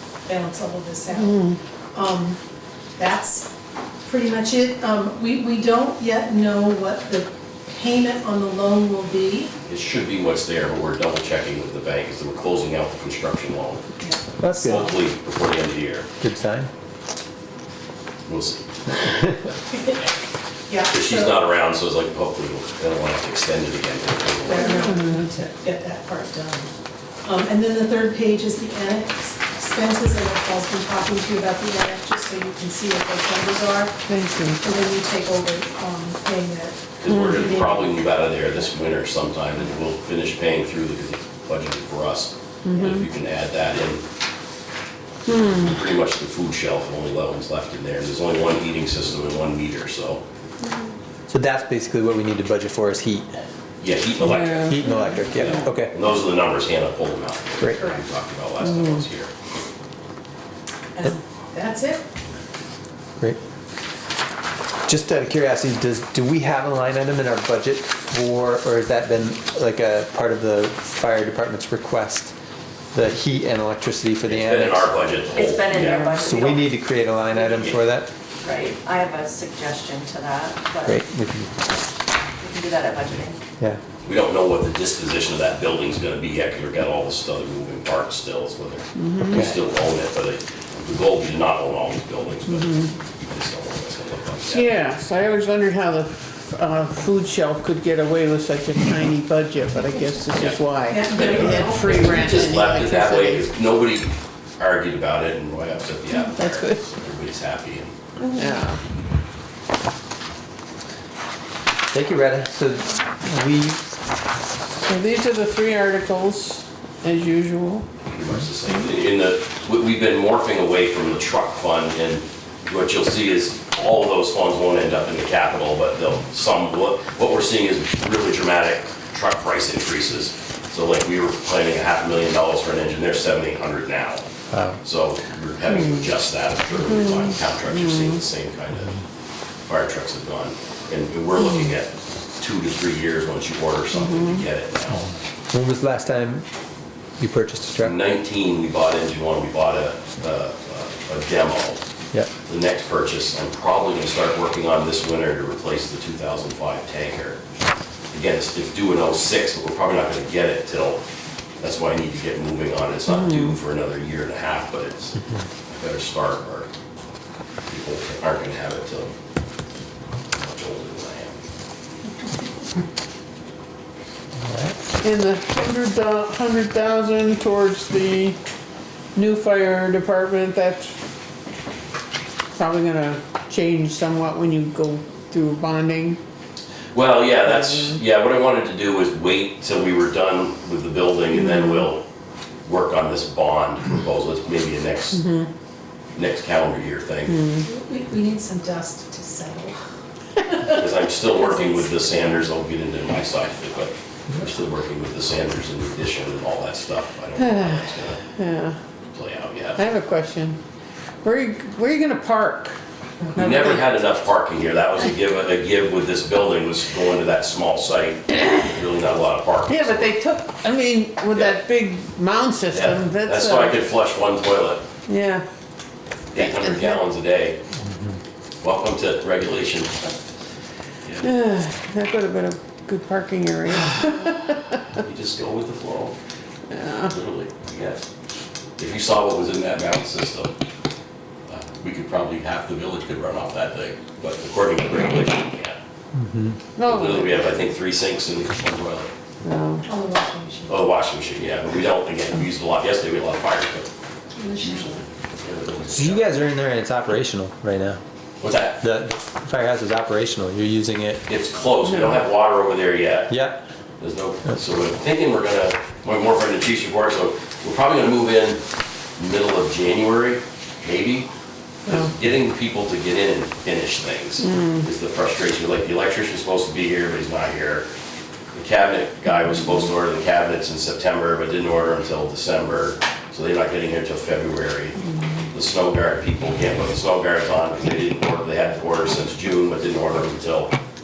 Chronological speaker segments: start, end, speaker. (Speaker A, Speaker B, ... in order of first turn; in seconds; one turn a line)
Speaker A: 0.3-1.4
Speaker B: 1.2-1.6
Speaker A: 1.9-2.4
Speaker A: 3.0-3.5
Speaker A: 4.0-9.5
Speaker C: 9.7-13.9
Speaker D: 14.4-15.0
Speaker C: 14.6-16.1
Speaker D: 16.2-16.7
Speaker C: 18.3-18.7
Speaker A: 19.7-20.0
Speaker A: 20.7-21.4
Speaker C: 20.9-24.9
Speaker A: 24.4-26.7
Speaker B: 24.8-25.2
Speaker A: 27.2-34.0
Speaker B: 34.1-34.6
Speaker A: 34.6-38.0
Speaker C: 37.0-44.0
Speaker B: 42.6-43.1
Speaker B: 45.3-45.7
Speaker C: 45.3-50.2
Speaker D: 51.3-53.4
Speaker C: 53.8-59.3
Speaker B: 54.2-55.7
Speaker D: 54.5-55.9
Speaker A: 57.8-58.0
Speaker B: 58.6-59.0
Speaker A: 61.0-62.0
Speaker D: 64.9-72.3
Speaker D: 72.9-74.9
Speaker C: 74.3-76.2
Speaker E: 75.3-76.7
Speaker D: 76.1-78.1
Speaker E: 78.4-80.9
Speaker D: 80.9-81.6
Speaker E: 82.4-83.4
Speaker C: 84.0-94.7
Speaker B: 89.0-89.5
Speaker B: 92.5-92.9
Speaker B: 94.5-103.5
Speaker A: 100.9-102.8
Speaker C: 101.1-107.9
Speaker B: 106.3-106.8
Speaker B: 108.4-108.8
Speaker E: 108.4-108.6
Speaker D: 111.9-113.9
Speaker B: 114.8-117.9
Speaker C: 118.1-134.2
Speaker D: 134.5-134.8
Speaker C: 134.8-138.9
Speaker B: 136.8-138.2
Speaker C: 139.7-145.1
Speaker B: 143.9-144.4
Speaker D: 144.9-146.5
Speaker D: 147.2-148.0
Speaker C: 147.8-151.8
Speaker C: 152.5-157.4
Speaker C: 158.1-161.0
Speaker C: 161.6-166.7
Speaker B: 163.1-163.6
Speaker C: 167.7-169.1
Speaker C: 170.3-171.3
Speaker D: 174.4-174.8
Speaker B: 175.0-178.4
Speaker B: 179.2-180.9
Speaker B: 182.6-186.2
Speaker C: 186.9-192.0
Speaker B: 187.4-188.0
Speaker B: 191.3-191.9
Speaker C: 192.7-195.2
Speaker B: 195.1-195.5
Speaker C: 196.2-197.4
Speaker B: 197.3-197.6
Speaker A: 197.6-199.8
Speaker A: 200.4-201.9
Speaker C: 200.8-208.2
Speaker B: 207.4-207.7
Speaker B: 208.3-208.8
Speaker C: 209.1-209.8
Speaker B: 209.8-210.6
Speaker B: 211.2-212.8
Speaker B: 213.3-213.9
Speaker C: 213.3-220.1
Speaker B: 219.7-223.8
Speaker C: 221.3-221.6
Speaker C: 222.7-224.8
Speaker B: 225.1-225.4
Speaker C: 226.3-227.6
Speaker B: 226.4-227.0
Speaker D: 227.8-228.2
Speaker C: 228.6-230.1
Speaker B: 231.2-234.7
Speaker C: 234.9-236.2
Speaker B: 236.7-237.1
Speaker C: 237.1-238.1
Speaker C: 238.8-240.5
Speaker C: 241.5-245.8
Speaker D: 246.1-246.6
Speaker B: 246.8-247.5
Speaker C: 246.8-249.1
Speaker B: 249.4-249.8
Speaker A: 249.8-250.8
Speaker C: 250.7-253.9
Speaker A: 254.3-255.1
Speaker C: 254.6-256.3
Speaker D: 256.0-258.0
Speaker C: 258.4-258.8
Speaker D: 258.8-261.2
Speaker C: 261.3-263.4
Speaker B: 261.9-262.2
Speaker D: 263.3-263.6
Speaker C: 264.0-268.6
Speaker C: 269.2-271.3
Speaker C: 271.9-277.9
Speaker B: 274.4-274.9
Speaker C: 278.5-285.0
Speaker C: 285.5-290.7